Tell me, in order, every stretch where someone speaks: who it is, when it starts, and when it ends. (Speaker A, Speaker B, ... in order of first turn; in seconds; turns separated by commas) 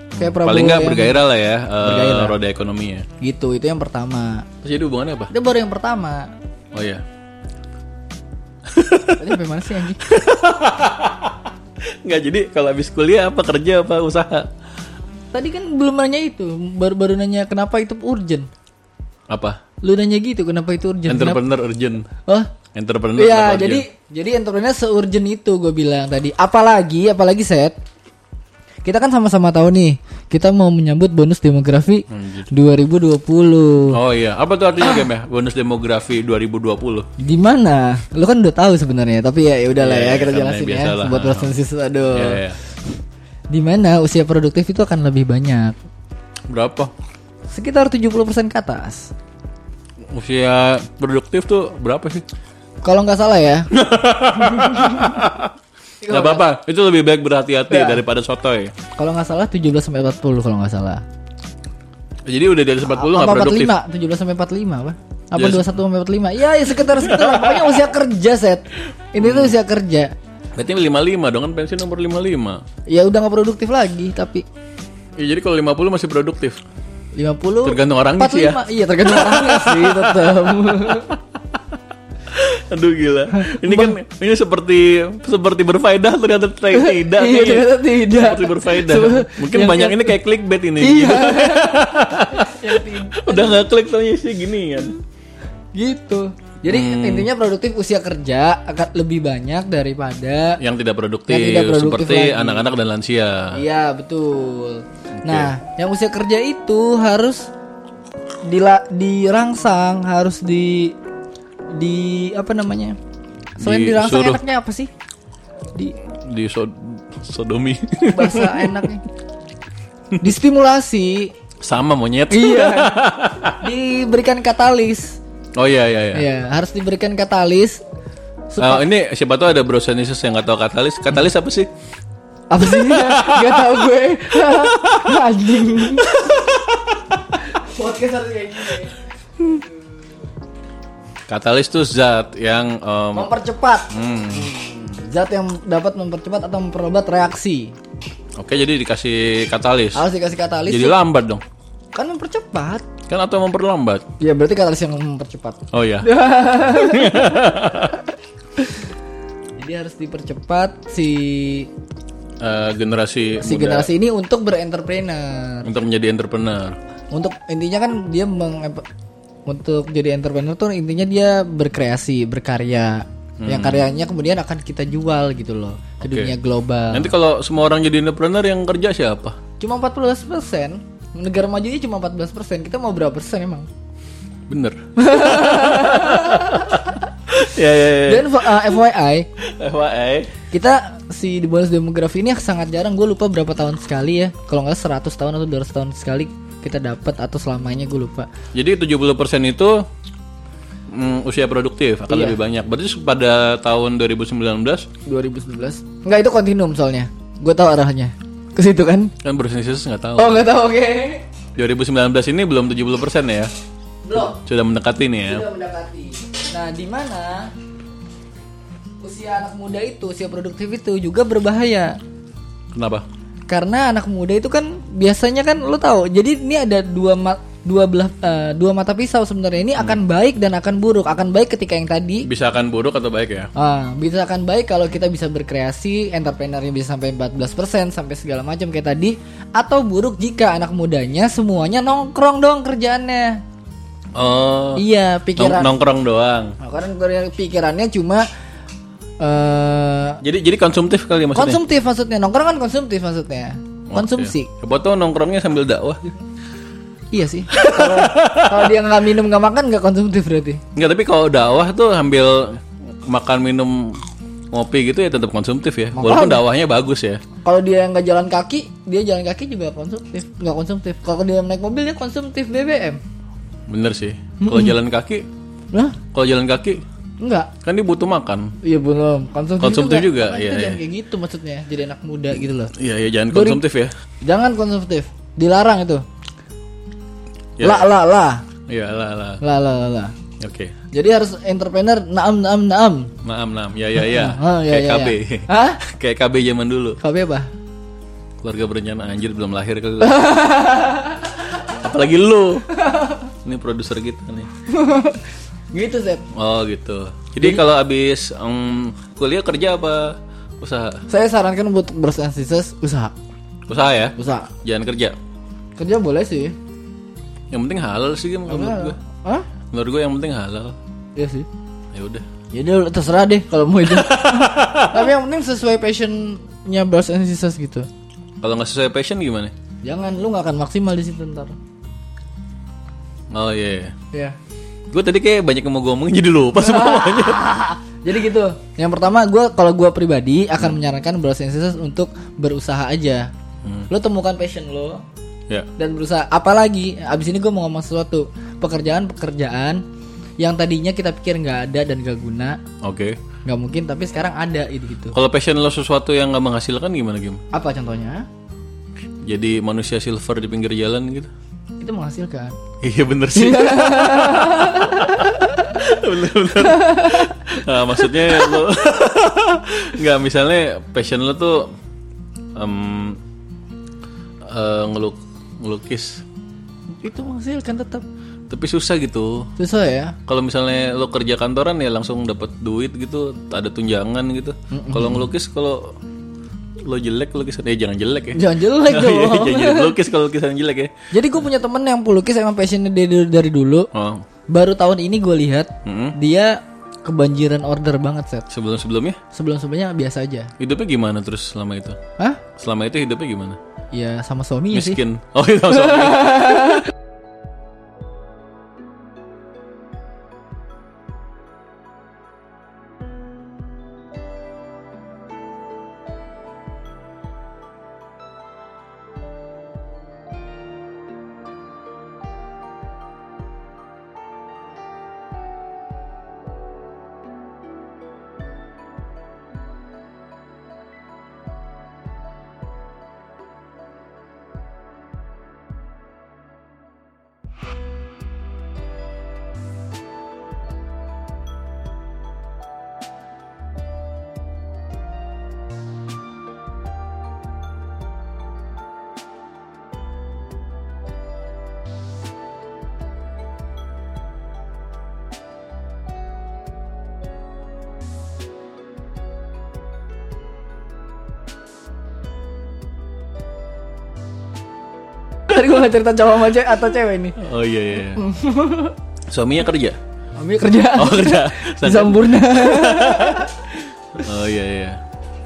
Speaker A: 0.1-1.2, Speaker B: 0.1-3.1, Speaker A: 1.8-2.4, Speaker A: 3.2-4.5, Speaker B: 4.6-5.3, Speaker A: 5.3-6.3, Speaker B: 6.7-7.0, Speaker B: 8.7-9.4, Speaker A: 9.2-10.2, Speaker B: 10.1-14.5, Speaker A: 15.3-18.5, Speaker B: 19.3-19.6, Speaker A: 19.8-21.4, Speaker B: 21.1-22.1, Speaker B: 22.7-23.8, Speaker A: 23.2-27.8, Speaker A: 28.9-34.0, Speaker B: 32.1-32.5, Speaker B: 33.9-37.1, Speaker A: 37.2-42.4, Speaker B: 39.8-41.5, Speaker B: 42.1-42.6, Speaker A: 43.5-45.8, Speaker B: 46.5-46.9, Speaker A: 47.5-49.1, Speaker B: 50.1-52.2, Speaker A: 52.8-53.7, Speaker B: 53.7-55.5, Speaker A: 54.4-55.2, Speaker A: 56.0-56.5, Speaker B: 56.1-58.7, Speaker A: 57.7-58.0, Speaker A: 59.0-61.0, Speaker B: 62.3-63.7, Speaker A: 62.9-70.1, Speaker B: 65.4-65.7, Speaker B: 66.9-67.8, Speaker B: 69.2-69.5, Speaker B: 70.6-72.6, Speaker A: 72.9-74.5, Speaker B: 75.2-76.6, Speaker A: 77.2-81.2, Speaker B: 77.7-81.6, Speaker B: 82.3-95.0, Speaker A: 83.4-84.0, Speaker A: 86.8-90.2, Speaker A: 90.8-93.6, Speaker A: 95.7-100.6, Speaker B: 96.7-97.3, Speaker B: 100.6-103.6, Speaker A: 101.3-102.7, Speaker A: 103.5-107.5, Speaker B: 105.2-105.5, Speaker A: 108.5-110.9, Speaker A: 111.7-113.0, Speaker B: 113.6-114.4, Speaker A: 113.6-114.9, Speaker B: 116.1-118.9, Speaker A: 118.1-119.0, Speaker A: 120.2-121.3, Speaker B: 121.6-123.6, Speaker A: 122.3-123.0, Speaker A: 123.5-125.2, Speaker B: 125.6-126.2, Speaker A: 126.1-127.8, Speaker A: 128.5-128.8, Speaker B: 128.6-131.7, Speaker A: 132.5-136.2, Speaker B: 132.6-137.2, Speaker A: 137.4-139.8, Speaker B: 141.3-143.3, Speaker A: 143.2-147.8, Speaker B: 143.9-144.5, Speaker B: 148.4-150.1, Speaker A: 149.9-151.0, Speaker B: 150.7-151.4, Speaker A: 151.9-152.8, Speaker B: 153.1-154.0, Speaker A: 154.2-157.4, Speaker B: 155.7-158.1, Speaker A: 158.6-158.9, Speaker A: 159.6-161.7, Speaker B: 162.4-163.9, Speaker A: 163.4-165.7, Speaker B: 165.6-166.8, Speaker A: 167.1-168.8, Speaker A: 169.5-177.1, Speaker B: 173.4-173.8, Speaker B: 176.0-176.3, Speaker B: 176.9-179.4, Speaker A: 179.6-183.7, Speaker B: 184.5-188.3, Speaker A: 185.0-186.8, Speaker A: 188.0-189.3, Speaker B: 189.4-190.3, Speaker A: 190.5-198.3, Speaker B: 198.5-199.9, Speaker B: 200.9-204.9, Speaker A: 202.1-202.4, Speaker A: 205.1-209.1, Speaker B: 209.2-210.5, Speaker A: 210.2-211.2, Speaker B: 211.6-213.5, Speaker A: 214.1-214.4, Speaker B: 214.2-215.5, Speaker A: 215.3-217.5, Speaker A: 219.0-222.0, Speaker B: 222.7-223.1, Speaker A: 223.5-232.3, Speaker B: 232.2-233.5, Speaker A: 233.6-243.4, Speaker B: 244.1-244.8, Speaker A: 244.8-245.7, Speaker B: 245.4-246.6, Speaker A: 246.6-248.3, Speaker A: 249.2-250.2, Speaker B: 250.2-251.6, Speaker A: 251.3-254.5, Speaker B: 253.9-256.0, Speaker A: 257.1-260.6, Speaker B: 257.5-258.8, Speaker B: 260.8-264.0, Speaker B: 264.5-267.2, Speaker A: 265.9-266.4, Speaker A: 267.4-273.0, Speaker B: 273.7-275.3, Speaker A: 274.4-274.8, Speaker A: 275.7-276.0, Speaker B: 276.1-276.8, Speaker A: 277.2-277.5, Speaker B: 277.6-278.5, Speaker A: 278.6-282.7, Speaker B: 279.6-280.8, Speaker B: 282.8-283.9, Speaker A: 283.3-283.6, Speaker A: 284.2-286.0, Speaker B: 287.6-287.9, Speaker A: 287.6-288.4, Speaker B: 288.7-289.4, Speaker A: 289.4-290.2, Speaker B: 290.4-290.7, Speaker A: 290.9-293.1, Speaker B: 293.2-297.0, Speaker A: 294.0-295.8, Speaker A: 297.0-297.5, Speaker B: 298.4-300.3, Speaker A: 300.0-301.4, Speaker B: 301.6-302.7, Speaker A: 302.7-303.3, Speaker B: 303.4-304.5, Speaker A: 304.7-306.2, Speaker B: 306.3-311.0, Speaker A: 311.1-313.1, Speaker B: 313.7-315.2, Speaker A: 314.2-314.5, Speaker A: 315.8-316.6, Speaker B: 317.5-319.0, Speaker A: 318.5-319.5, Speaker B: 319.7-320.8, Speaker A: 321.2-321.5, Speaker B: 321.9-322.3, Speaker A: 322.5-327.9, Speaker B: 323.9-325.1, Speaker B: 328.4-329.5, Speaker A: 329.8-331.5, Speaker B: 333.3-334.0, Speaker B: 334.9-337.4, Speaker A: 336.6-343.3, Speaker A: 343.9-345.0, Speaker A: 345.8-349.8, Speaker A: 350.4-352.6, Speaker B: 352.8-353.2, Speaker A: 353.4-355.2, Speaker B: 355.1-357.4, Speaker A: 357.5-358.3, Speaker B: 359.2-361.3, Speaker A: 361.8-362.6, Speaker B: 362.8-371.7, Speaker A: 363.4-365.5, Speaker A: 366.7-367.3, Speaker B: 372.6-373.2, Speaker B: 374.5-376.2, Speaker A: 377.0-378.1, Speaker B: 378.5-379.5, Speaker A: 379.6-380.2, Speaker B: 380.3-385.9, Speaker A: 384.7-385.3, Speaker B: 386.9-390.9, Speaker A: 388.3-389.9, Speaker A: 391.1-393.9, Speaker B: 393.9-394.2, Speaker A: 394.5-398.5, Speaker B: 395.9-396.2, Speaker B: 398.5-399.2, Speaker A: 399.3-400.5, Speaker B: 400.6-402.0, Speaker B: 402.6-403.6, Speaker A: 403.9-405.0, Speaker B: 404.7-406.7, Speaker A: 406.2-406.8, Speaker A: 465.5-467.4, Speaker B: 467.4-468.2, Speaker A: 468.2-469.0, Speaker B: 469.3-470.0, Speaker A: 470.4-474.2, Speaker B: 470.9-473.5, Speaker B: 474.2-475.0